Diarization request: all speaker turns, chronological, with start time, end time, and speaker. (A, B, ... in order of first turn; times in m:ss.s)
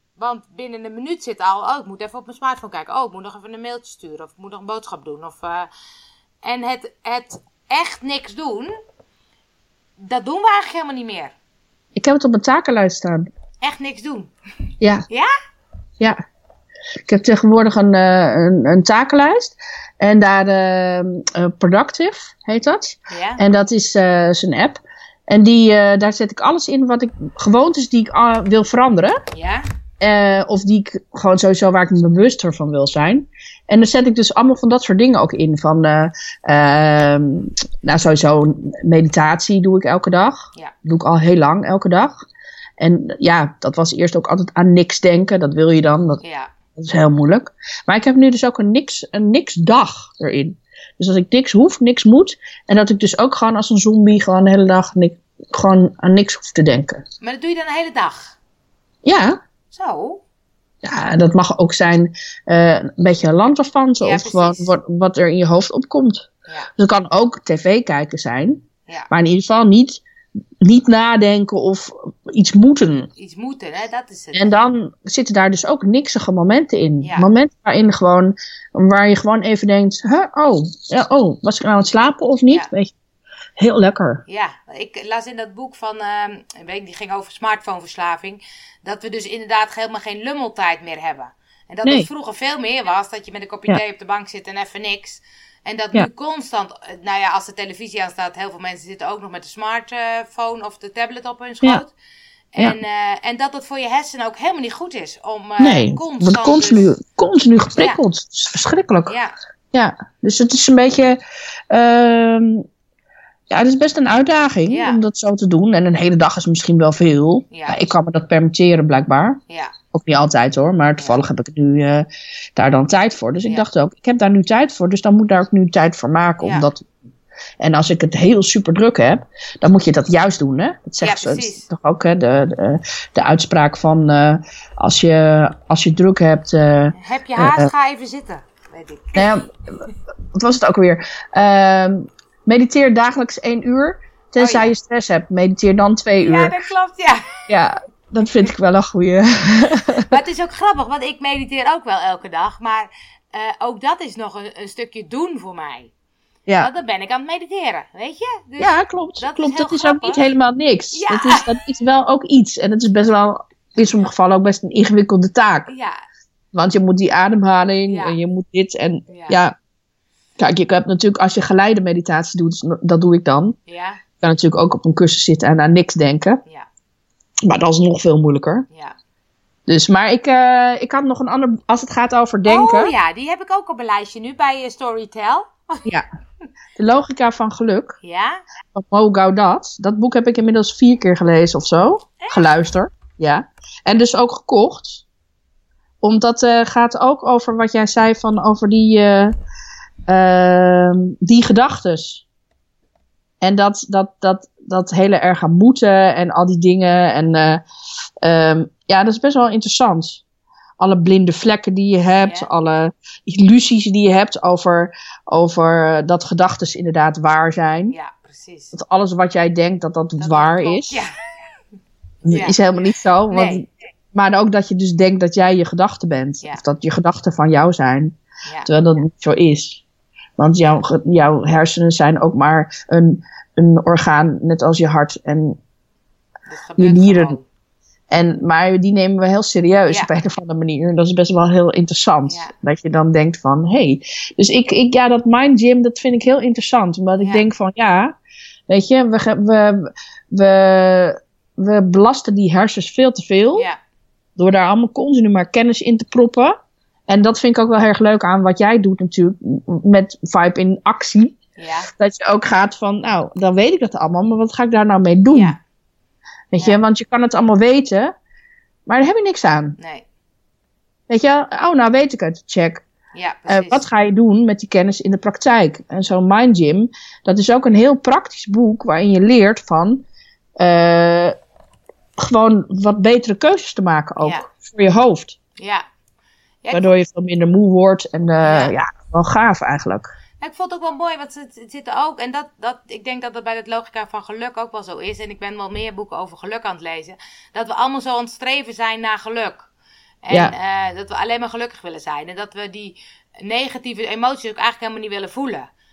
0:00.2-0:05.7 A
0:06.4-0:08.7 A
0:10.0-0:11.3 A
0:11.9-0:13.3 B
0:13.6-0:14.3 A
0:17.1-0:29.2 B
0:23.1-0:23.4 A
0:29.3-0:29.6 A
0:30.0-0:42.2 B
0:42.8-0:46.2 B
0:46.2-0:46.5 A
0:46.8-0:57.0 B
0:57.2-0:58.4 A
0:59.0-0:59.4 B
0:59.7-1:00.2 A
1:00.8-1:10.0 B
1:04.0-1:04.7 A
1:10.6-1:13.1 B
1:13.2-1:14.5 A
1:14.3-1:22.9 B
1:17.0-1:17.3 A
1:23.6-1:24.2 B
1:24.3-1:41.9 A
1:42.5-1:46.9 A
1:45.6-1:49.1 B
1:49.0-1:49.3 A
1:49.7-1:51.2 B
1:51.7-1:52.6 B
1:53.5-1:59.4 B
1:54.7-1:55.0 A
1:57.5-1:57.9 A
1:59.5-1:59.7 A
1:59.9-2:06.9 B
2:06.4-2:06.7 A
2:07.6-2:17.7 B
2:11.0-2:11.7 A
2:16.9-2:19.3 A
2:19.1-2:19.5 B
2:20.3-2:26.5 B
2:24.4-2:24.7 A
2:26.2-2:27.5 A
2:27.5-2:30.2 B
2:30.0-2:35.9 A
2:36.6-2:40.3 A
2:38.6-2:45.7 B
2:40.9-2:41.6 A
2:45.7-2:46.0 A
2:46.5-2:49.5 B
2:47.9-2:48.2 A
2:49.1-2:49.4 A
2:50.4-2:53.6 B
2:53.7-2:54.0 A
2:54.2-2:56.4 B
2:57.4-2:58.7 B
2:58.7-2:59.0 A
2:59.7-3:02.9 B
3:02.4-3:05.9 A
3:06.8-3:08.0 B
3:08.0-3:08.4 A
3:08.7-3:15.0 B
3:12.2-3:12.5 A
3:16.0-3:19.3 B
3:20.1-3:22.2 B
3:23.4-3:27.6 B
3:28.2-3:30.2 B
3:30.8-3:37.9 B
3:32.2-3:32.5 A
3:37.9-3:38.7 A
3:38.7-3:41.0 B
3:40.2-3:41.5 A
3:42.2-3:49.8 B
3:42.3-3:42.6 A
3:43.3-3:43.6 A
3:48.4-3:48.7 A
3:50.4-3:55.6 B
3:56.5-3:57.4 A
3:56.8-3:57.4 B
3:58.1-4:08.2 B
4:02.2-4:02.5 A
4:08.7-4:13.7 B
4:14.4-4:16.6 B
4:17.1-4:21.4 B
4:21.6-4:21.9 A
4:22.0-4:25.6 B
4:25.3-4:25.6 A
4:26.5-4:28.1 B
4:28.9-4:29.8 B
4:29.8-4:30.0 A
4:31.1-4:32.8 B
4:33.1-4:33.8 A
4:33.5-4:40.0 B
4:40.6-4:41.3 B
4:42.2-4:45.4 B
4:44.2-4:44.4 A
4:45.6-4:45.8 A
4:46.6-4:46.9 A
4:46.7-4:50.1 B
4:48.4-4:48.7 A
4:50.4-4:59.7 A
5:00.2-5:05.7 A